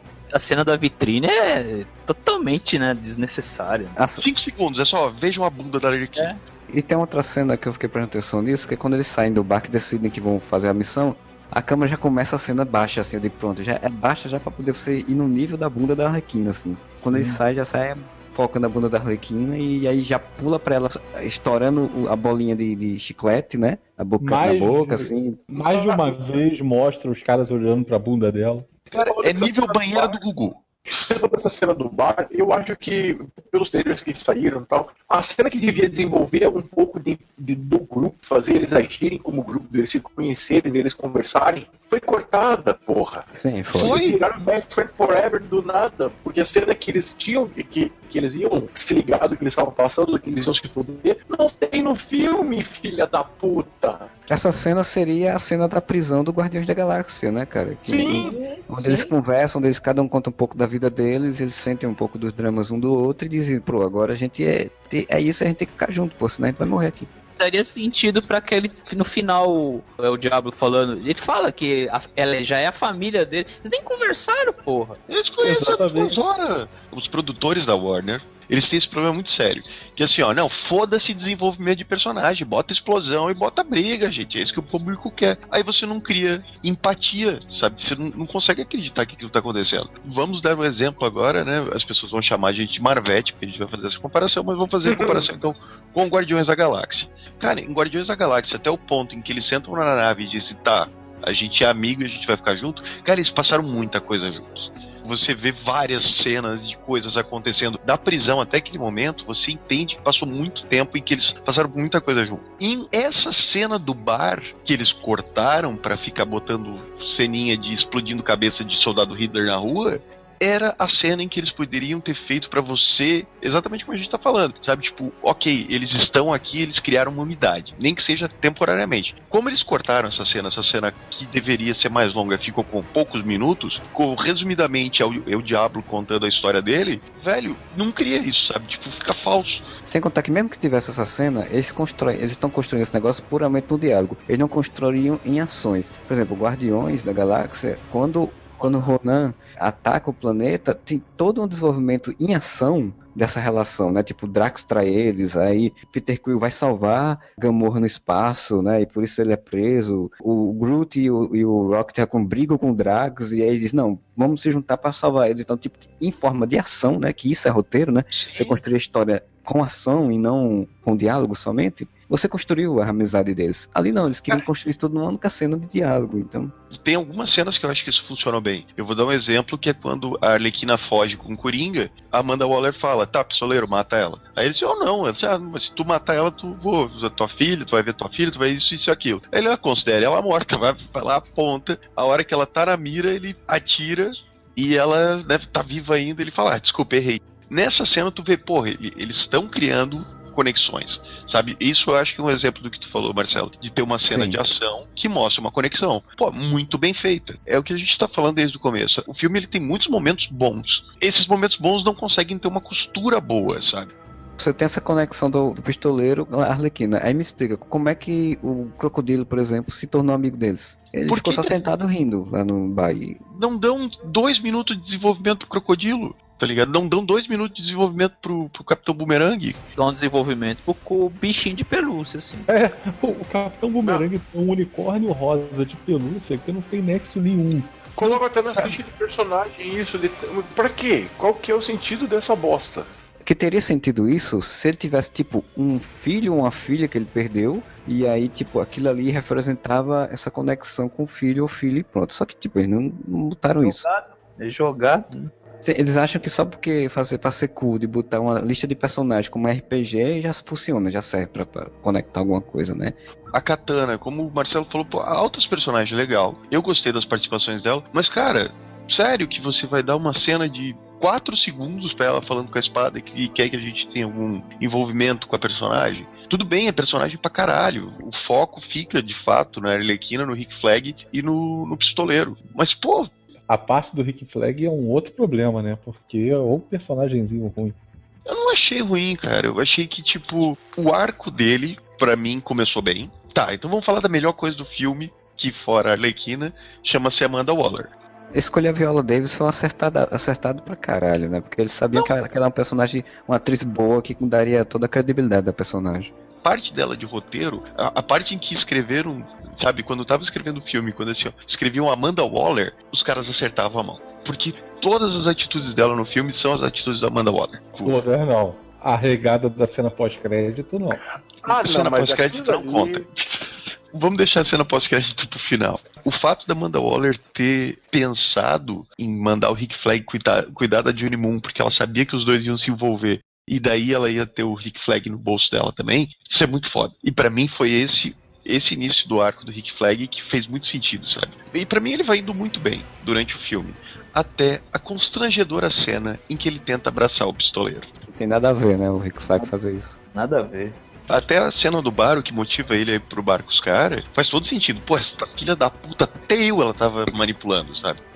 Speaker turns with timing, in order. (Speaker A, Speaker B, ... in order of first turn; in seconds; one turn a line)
Speaker A: 0.3-4.0
Speaker B: 4.0-4.2
Speaker C: 4.2-6.3
Speaker B: 6.7-25.4
Speaker D: 17.1-17.4
Speaker D: 24.2-28.7
Speaker E: 25.5-26.2
Speaker E: 28.9-30.2
Speaker C: 28.9-30.6
Speaker E: 30.9-43.2
Speaker B: 43.3-44.2
Speaker C: 43.8-44.1
Speaker E: 43.8-54.1
Speaker B: 54.3-67.1
Speaker E: 57.9-58.4
Speaker A: 58.2-59.0
Speaker A: 67.4-75.0
Speaker C: 75.1-139.7
Speaker D: 75.4-76.2
Speaker E: 94.8-95.2
Speaker B: 139.9-176.5
Speaker C: 168.1-168.6
Speaker C: 176.7-213.9
Speaker B: 204.1-204.4
Speaker B: 214.4-223.2
Speaker C: 221.1-221.6
Speaker C: 223.3-229.6
Speaker A: 229.8-232.5
Speaker D: 232.5-238.1
Speaker E: 237.9-242.9
Speaker B: 243.2-253.8
Speaker A: 253.6-255.3
Speaker B: 255.6-263.0
Speaker C: 263.3-283.1
Speaker D: 283.5-287.8
Speaker C: 288.2-297.9
Speaker B: 298.3-306.1
Speaker C: 306.4-318.0
Speaker D: 317.8-321.0
Speaker E: 321.4-323.0
Speaker C: 321.4-347.9
Speaker B: 348.1-350.0
Speaker A: 350.1-350.8
Speaker C: 351.1-358.0